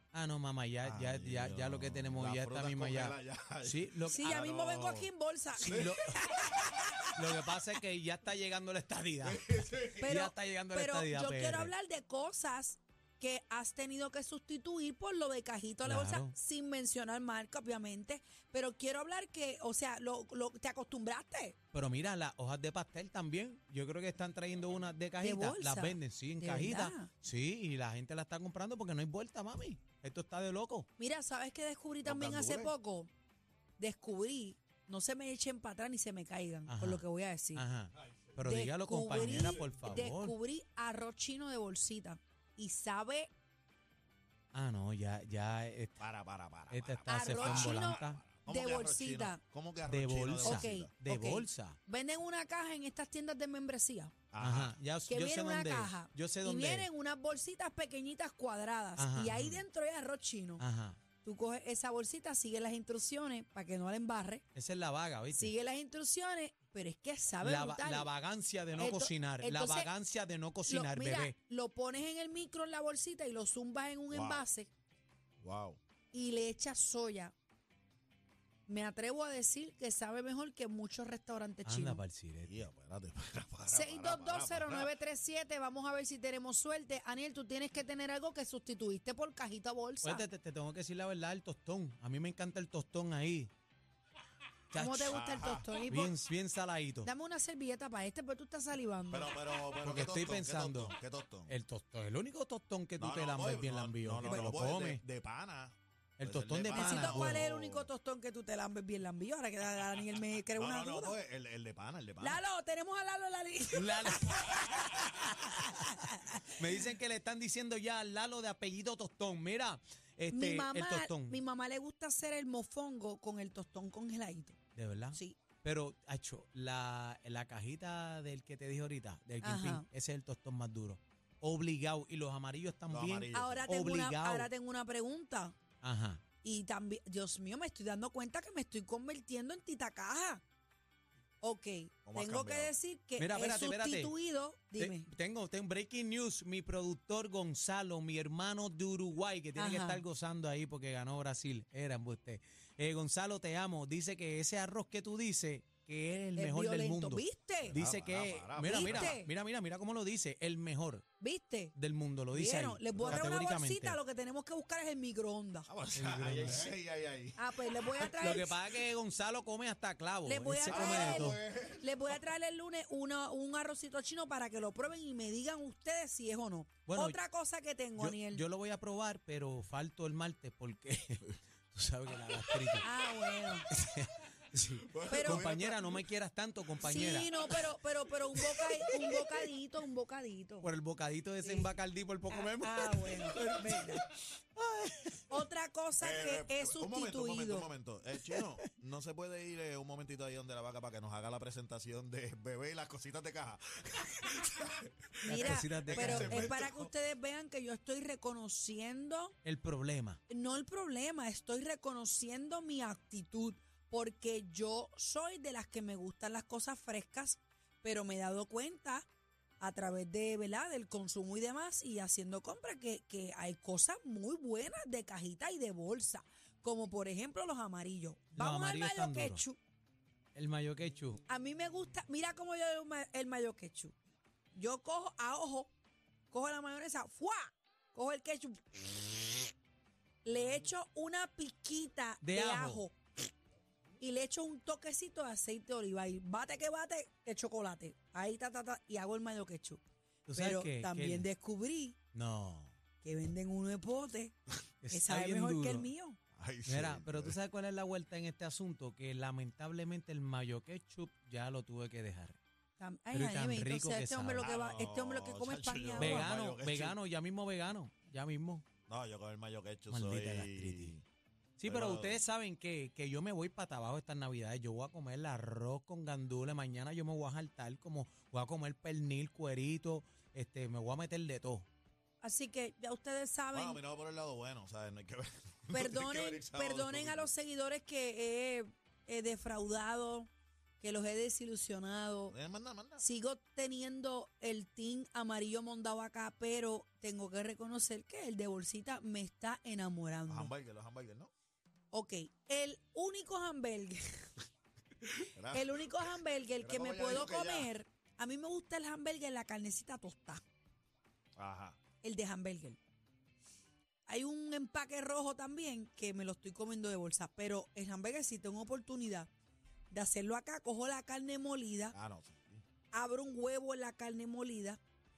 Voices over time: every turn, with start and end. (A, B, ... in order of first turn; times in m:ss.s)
0:00.1-0:04.2 A
0:00.8-0:05.1 B
0:04.1-0:07.1 C
0:05.6-0:06.4 A
0:05.7-0:06.5 B
0:07.1-0:11.7 A
0:09.2-0:10.1 B
0:10.0-0:21.6 C
0:15.8-0:16.3 A
0:21.7-0:30.9 A
0:25.2-0:27.1 C
0:31.0-0:33.1 C
0:32.0-0:32.7 B
0:33.8-0:37.6 C
0:36.7-0:40.3 A
0:38.4-0:43.3 C
0:39.4-0:39.8 B
0:44.5-0:46.0 A
0:46.0-0:50.9 B
0:46.7-0:48.2 A
0:47.1-0:49.4 C
0:49.8-0:51.8 A
0:50.4-0:54.1 C
0:54.3-0:54.8 B
0:54.4-0:56.9 A
0:55.1-1:00.6 C
0:59.0-0:59.6 A
1:00.6-1:01.0 A
1:01.2-1:04.4 C
1:04.5-1:05.5 A
1:05.3-1:08.1 C
1:07.4-1:11.4 A
1:08.8-1:09.9 C
1:10.6-1:14.7 C
1:14.1-1:14.4 B
1:15.4-1:15.8 B
1:16.1-1:17.3 C
1:18.7-1:22.0 C
1:21.6-1:22.6 A
1:22.4-1:24.9 B
1:23.7-1:30.2 C
1:30.0-1:33.5 A
1:34.7-1:35.2 A
1:34.7-1:36.2 C
1:35.1-1:35.7 B
1:35.8-1:37.1 A
1:37.0-1:39.4 C
1:39.1-1:41.5 B
1:39.8-1:41.0 A
1:41.5-1:45.0 A
1:43.0-1:47.9 B
1:44.2-1:44.5 C
1:46.2-1:47.4 A
1:46.7-1:51.2 C
1:50.6-1:52.4 B
1:52.2-1:56.6 C
1:53.7-2:01.4 A
2:00.3-2:04.6 C
2:04.8-2:14.5 A
2:05.1-2:05.4 C
2:09.4-2:09.9 C
2:12.9-2:13.7 B
2:13.3-2:15.6 C
2:15.8-2:16.2 A
2:16.4-2:20.4 C
2:21.4-2:25.1 C
2:22.0-2:22.7 B
2:23.2-2:24.1 A
2:24.8-2:41.0 A
2:29.6-2:30.0 C
2:36.3-2:37.8 C
2:37.7-2:39.2 B
2:38.6-2:39.3 C
2:41.2-2:41.7 C
2:41.7-2:44.0 A
2:42.3-2:45.7 C
2:42.9-2:43.2 B
2:45.7-2:47.9 B
2:45.9-2:46.7 A
2:47.4-2:48.6 C
2:48.0-2:51.4 A
2:50.2-2:58.4 C
2:50.7-2:52.2 B
2:56.8-2:57.2 A
2:58.0-3:02.9 A
3:02.8-3:03.7 C
3:03.7-3:07.6 A
3:04.8-3:06.0 B
3:05.1-3:05.5 C
3:06.8-3:10.7 C
3:08.4-3:09.2 A
3:10.6-3:15.2 A
3:11.4-3:11.7 C
3:12.3-3:14.0 C
3:15.3-3:17.7 C
3:16.0-3:26.9 B
3:18.3-3:18.6 A
3:25.2-3:29.3 C
3:25.2-3:26.6 A
3:29.4-3:30.2 A
3:30.3-3:39.0 C
3:39.6-3:49.6 C
3:48.3-3:49.4 A
3:50.3-3:51.2 A
3:51.3-3:53.9 C
3:54.5-3:55.7 C
3:56.3-3:59.4 C
4:00.2-4:03.2 C
4:02.2-4:02.8 A
4:04.0-4:09.8 C
4:10.2-4:11.3 A
4:10.3-4:12.0 C
4:12.1-4:12.7 A
4:13.0-4:14.3 C
4:14.8-4:15.9 A
4:14.9-4:16.2 C
4:16.4-4:17.4 B
4:16.6-4:22.4 A
4:22.8-4:26.3 C
4:23.1-4:24.5 A
4:24.4-4:27.0 B
4:26.0-4:28.6 A
4:28.9-4:31.0 B
4:29.9-4:30.9 A
4:31.6-4:41.6 A
4:31.6-4:32.2 B
4:42.2-4:43.8 C
4:43.5-4:47.3 B
4:45.7-4:50.3 C
4:50.8-4:52.3 C
4:52.3-4:53.0 B
4:53.0-5:00.5 C
5:00.3-5:01.3 B
5:01.9-5:04.3 C
5:05.2-5:07.7 B
5:05.5-5:10.4 C
5:11.4-5:11.8 B
5:12.0-5:12.8 C
5:14.1-5:19.3 C
5:19.9-5:22.0 C
5:21.9-5:22.6 B
5:22.9-5:24.8 C